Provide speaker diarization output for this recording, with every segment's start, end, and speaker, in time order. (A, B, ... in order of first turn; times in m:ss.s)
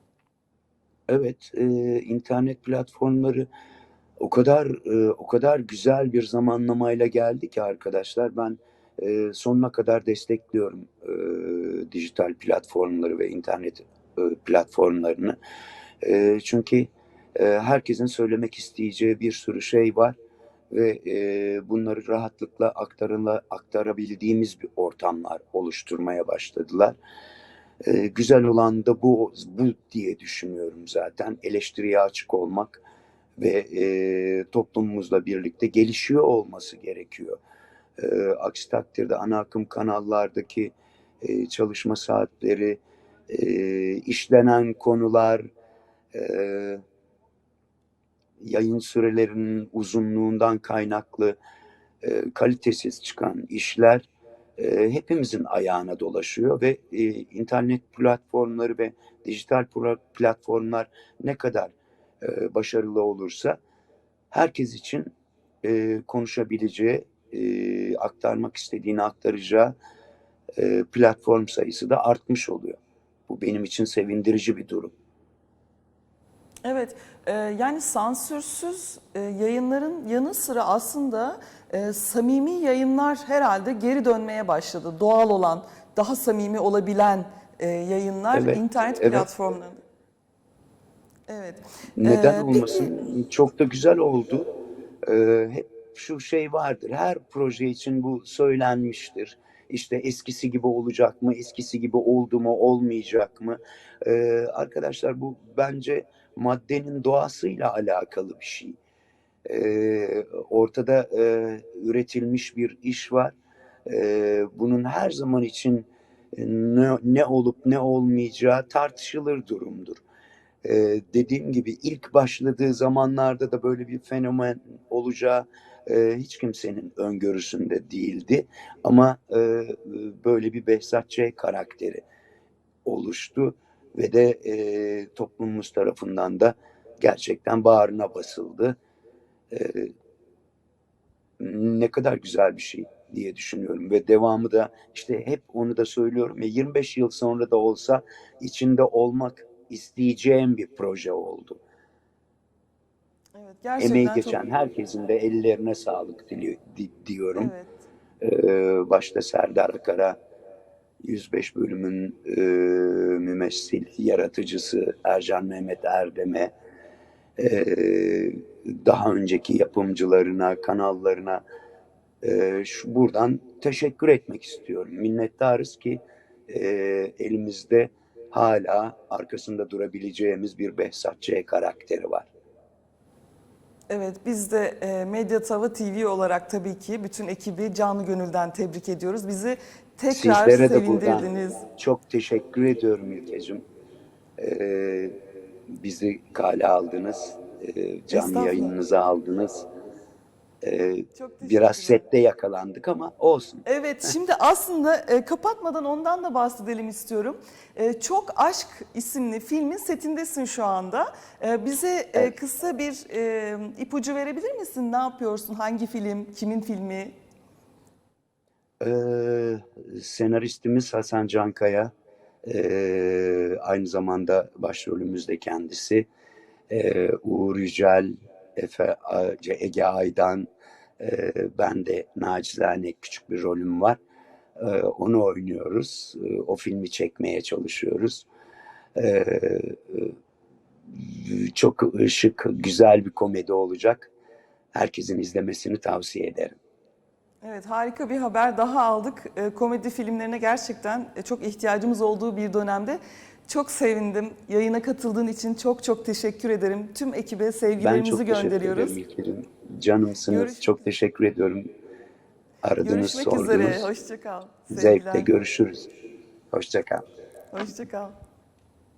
0:01.1-0:03.5 A
0:04.2-0:15.4 A
0:16.0-0:20.2 A
0:20.7-0:27.0 A
0:27.8-0:32.8 A
0:33.4-0:37.4 A
0:38.0-0:45.4 A
0:46.1-0:46.8 A
0:48.4-0:51.4 A
0:52.0-1:03.6 A
1:04.3-1:05.1 A
1:05.6-1:09.8 A
1:10.6-1:14.9 A
1:16.6-1:29.8 B
1:28.3-1:29.3 A
1:31.3-1:32.9 B
1:32.0-1:34.5 A
1:35.1-1:48.8 A
1:49.5-1:53.4 A
1:53.9-2:00.0 A
2:00.6-2:12.0 A
2:12.8-2:18.8 A
2:19.5-2:19.9 A
2:21.4-2:31.6 A
2:33.4-2:34.4 B
2:33.8-2:37.5 A
2:37.4-2:37.8 B
2:38.2-2:40.2 A
2:41.0-2:46.5 A
2:47.4-2:51.4 A
2:52.2-3:02.3 A
3:03.9-3:11.6 B
3:10.1-3:13.6 A
3:14.4-3:15.1 A
3:15.7-3:19.7 A
3:18.1-3:18.8 B
3:20.6-3:23.6 A
3:21.2-3:22.0 B
3:23.7-3:37.1 B
3:38.8-3:41.9 A
3:42.4-3:46.1 A
3:46.7-3:50.5 A
3:51.0-3:54.0 A
3:54.6-3:58.3 A
3:59.0-4:00.1 A
4:00.9-4:04.1 A
4:04.7-4:06.6 A
4:07.4-4:19.0 B
4:17.8-4:21.7 A
4:20.3-4:20.8 B
4:22.6-4:23.9 A
4:22.8-4:25.3 B
4:24.7-4:25.9 A
4:26.5-4:27.0 A
4:27.5-4:28.1 B